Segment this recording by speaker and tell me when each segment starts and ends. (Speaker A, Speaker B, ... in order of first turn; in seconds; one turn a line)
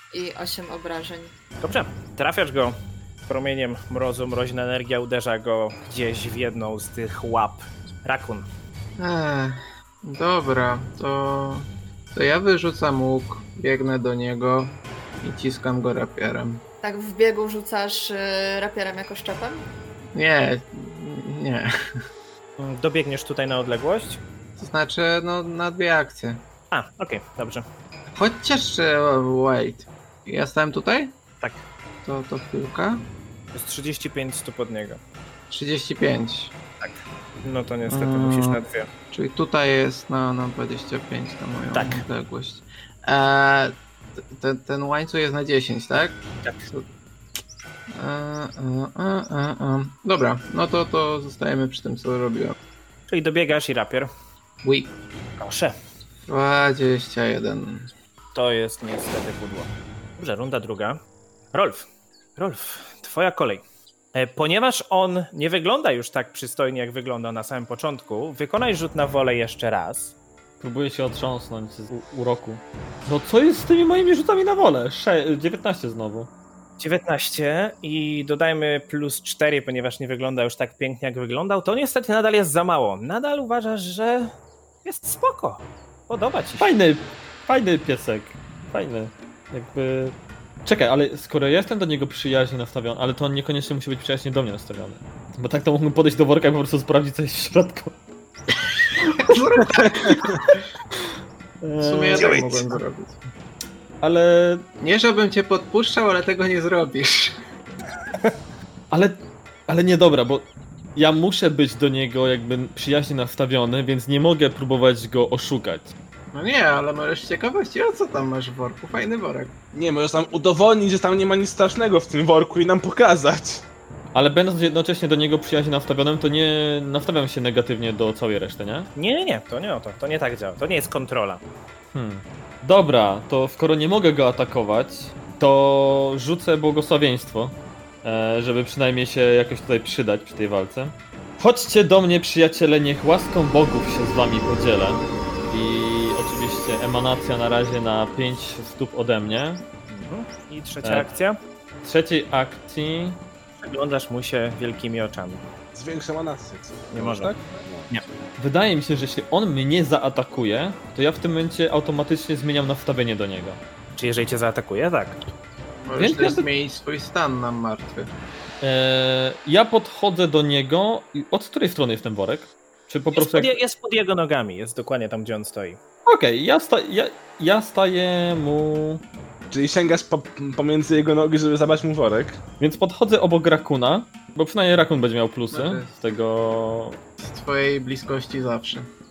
Speaker A: 0.1-1.3
Speaker B: 1.6-8.5
Speaker C: 9.0-16.6
Speaker A: 16.8-19.7
Speaker C: 20.1-21.7
Speaker B: 22.6-24.2
Speaker C: 24.6-26.4
Speaker B: 26.7-27.6
Speaker C: 28.1-31.1
Speaker C: 32.0-33.0
Speaker B: 33.5-35.0
Speaker C: 35.5-36.5
Speaker B: 36.8-38.9
Speaker C: 37.9-38.6
Speaker C: 39.1-46.9
Speaker B: 41.7-42.0
Speaker C: 47.9-52.5
Speaker B: 53.1-54.1
Speaker C: 54.6-54.9
Speaker B: 55.4-55.7
Speaker C: 56.3-57.9
Speaker B: 58.3-61.0
Speaker B: 61.5-61.9
Speaker B: 62.4-63.6
Speaker B: 64.1-70.1
Speaker D: 70.6-76.3
Speaker B: 76.8-84.3
Speaker B: 84.8-86.7
Speaker D: 86.6-98.0
Speaker C: 98.9-100.6
Speaker E: 99.7-100.3
Speaker D: 101.6-102.6
Speaker C: 101.8-103.2
Speaker B: 102.1-102.4
Speaker D: 104.0-104.6
Speaker C: 104.8-107.3
Speaker D: 108.9-115.9
Speaker C: 116.3-119.5
Speaker E: 119.7-123.7
Speaker D: 124.1-128.9
Speaker B: 128.9-131.4
Speaker D: 131.9-149.6
Speaker B: 149.9-151.3
Speaker D: 151.8-153.2
Speaker B: 153.6-155.4
Speaker E: 155.7-157.9
Speaker B: 156.9-157.3
Speaker D: 158.4-163.6
Speaker B: 164.0-165.2
Speaker C: 165.8-168.1
Speaker D: 165.9-166.5
Speaker D: 168.6-173.5
Speaker B: 173.1-175.8
Speaker D: 176.1-179.0
Speaker E: 179.5-182.4
Speaker D: 182.6-187.0
Speaker C: 185.5-185.9
Speaker C: 187.2-188.9